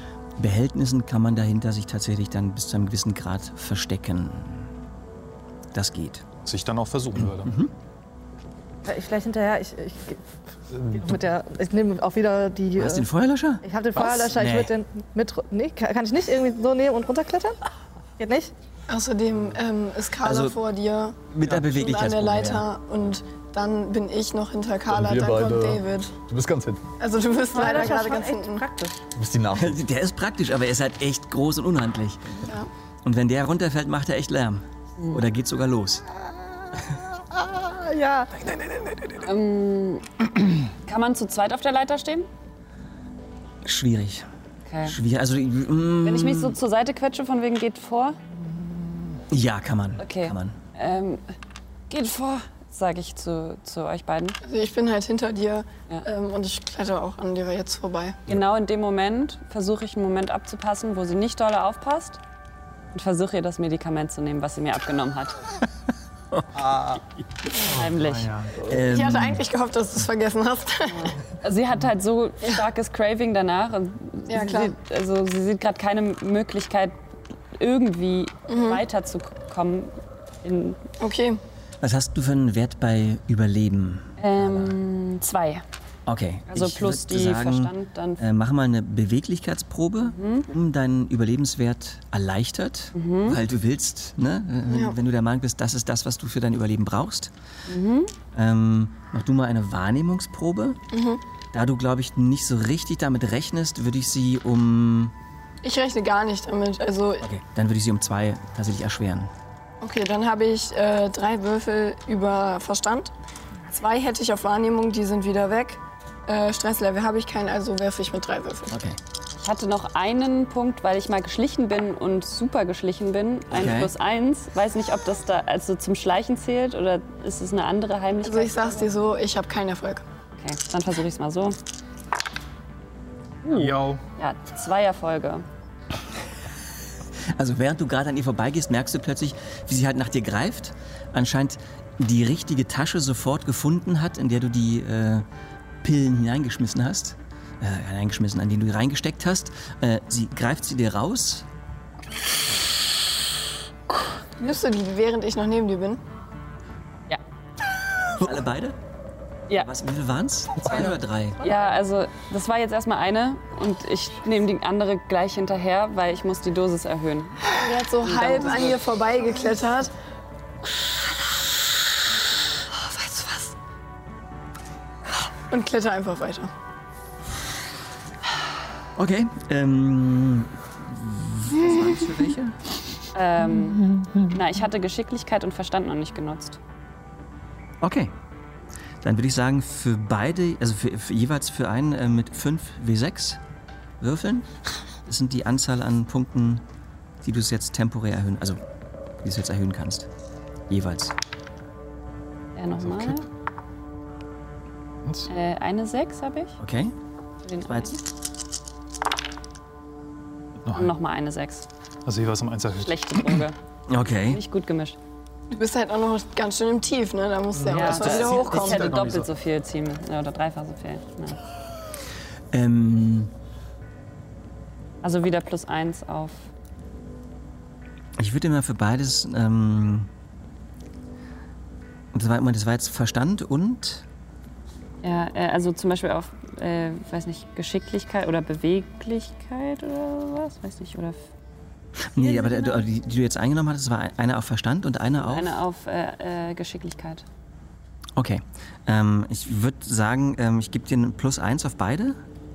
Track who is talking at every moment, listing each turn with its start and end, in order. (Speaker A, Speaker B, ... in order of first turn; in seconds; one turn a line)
Speaker A: 0.4-4.7
Speaker A: 5.7-6.2
Speaker B: 6.4-7.6
Speaker A: 7.2-7.7
Speaker C: 8.8-10.2
Speaker C: 10.8-13.1
Speaker A: 12.8-14.7
Speaker C: 13.6-17.6
Speaker C: 18.2-18.5
Speaker D: 18.9-26.1
Speaker A: 20.2-20.6
Speaker A: 21.3-22.6
Speaker E: 24.9-26.9
Speaker D: 27.0-28.6
Speaker C: 27.5-29.0
Speaker E: 29.1-29.8
Speaker A: 29.6-32.5
Speaker A: 33.0-36.0
Speaker C: 37.6-38.3
Speaker B: 38.5-39.1
Speaker F: 39.2-40.1
Speaker F: 40.7-42.3
Speaker A: 43.6-44.2
Speaker F: 44.7-45.0
Speaker A: 44.9-46.5
Speaker F: 46.0-48.2
Speaker A: 49.3-50.6
Speaker F: 50.0-51.2
Speaker F: 51.9-54.4
Speaker D: 54.4-58.2
Speaker F: 58.3-62.2
Speaker F: 62.9-65.4
Speaker F: 67.6-68.3
Speaker B: 67.7-68.5
Speaker A: 68.7-69.4
Speaker D: 68.8-71.2
Speaker F: 70.9-77.0
Speaker D: 74.3-74.7
Speaker F: 77.5-80.8
Speaker D: 78.5-78.8
Speaker D: 81.0-81.4
Speaker A: 81.8-84.8
Speaker F: 84.2-85.6
Speaker A: 86.1-97.3
Speaker F: 86.5-88.2
Speaker F: 90.1-90.5
Speaker F: 93.0-93.4
Speaker D: 94.7-95.0
Speaker F: 97.7-98.1
Speaker A: 98.3-100.8
Speaker D: 100.9-101.2
Speaker A: 101.5-105.1
Speaker D: 105.6-107.3
Speaker A: 107.2-109.3
Speaker D: 109.8-113.1
Speaker D: 113.7-118.8
Speaker A: 118.7-119.0
Speaker F: 119.4-128.9
Speaker A: 123.5-123.9
Speaker D: 128.2-130.0
Speaker F: 130.4-131.6
Speaker F: 133.4-135.4
Speaker B: 133.5-134.0
Speaker A: 137.3-145.2
Speaker A: 145.8-151.4
Speaker D: 154.4-156.0
Speaker A: 158.2-158.8
Speaker A: 159.6-161.4
Speaker F: 161.4-168.8
Speaker D: 167.5-169.9
Speaker D: 172.8-173.5
Speaker D: 175.5-176.5
Speaker A: 179.0-182.6
Speaker F: 183.1-186.6
Speaker A: 187.8-188.1
Speaker A: 189.0-193.4
Speaker A: 194.0-194.5
Speaker A: 195.1-196.6
Speaker A: 197.2-198.6
Speaker A: 199.2-200.1
Speaker A: 200.7-201.1
Speaker F: 202.6-203.2
Speaker B: 202.8-203.2
Speaker B: 205.1-205.3
Speaker F: 205.3-206.6
Speaker A: 206.6-206.9
Speaker F: 207.4-208.0
Speaker A: 207.7-207.9
Speaker B: 210.6-210.9
Speaker F: 210.7-211.7
Speaker B: 212.1-213.4
Speaker F: 212.8-213.6
Speaker A: 213.9-214.4
Speaker F: 214.3-215.0
Speaker D: 215.5-218.9
Speaker B: 217.5-219.3
Speaker F: 217.7-221.4
Speaker A: 222.5-223.3
Speaker F: 225.0-226.5
Speaker A: 228.2-230.1
Speaker A: 232.1-234.0
Speaker F: 235.0-241.3
Speaker A: 242.1-245.6
Speaker C: 242.2-242.8
Speaker F: 245.2-247.2
Speaker A: 248.2-252.2